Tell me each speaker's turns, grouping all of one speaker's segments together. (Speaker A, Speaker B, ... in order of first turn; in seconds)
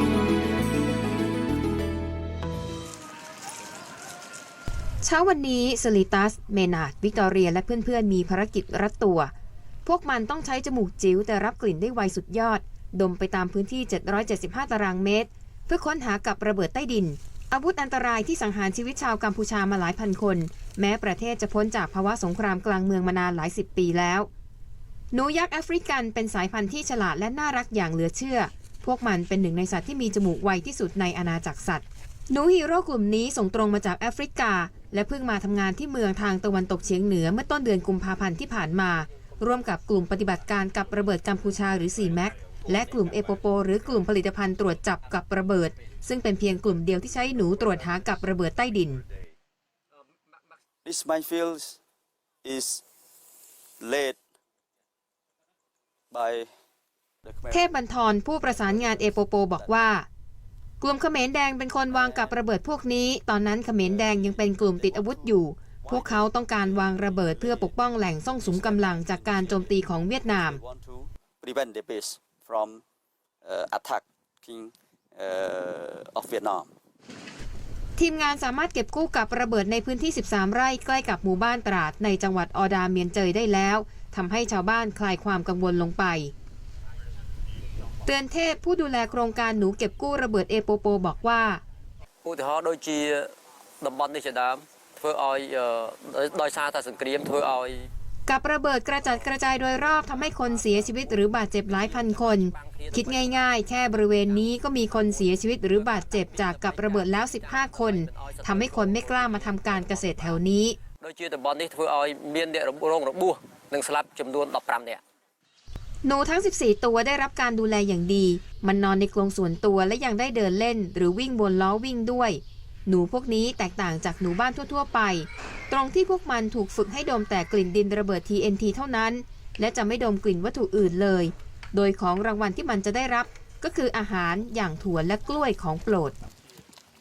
Speaker A: 5.0-9.3, 9.8-24.3, 25.1-49.0, 57.5-60.1, 60.8-70.6, 78.0-86.3, 88.0-91.6, 98.2-110.8, 116.0-136.1
Speaker B: 50.8-51.8, 52.4-52.8, 53.8-54.2, 56.1-56.5, 57.2-57.7, 58.5-59.8, 61.9-62.4, 63.7-72.8, 73.4-76.7
Speaker C: 92.2-97.9, 100.5-101.1, 101.7-103.5, 104.2-110.4, 111.0-115.0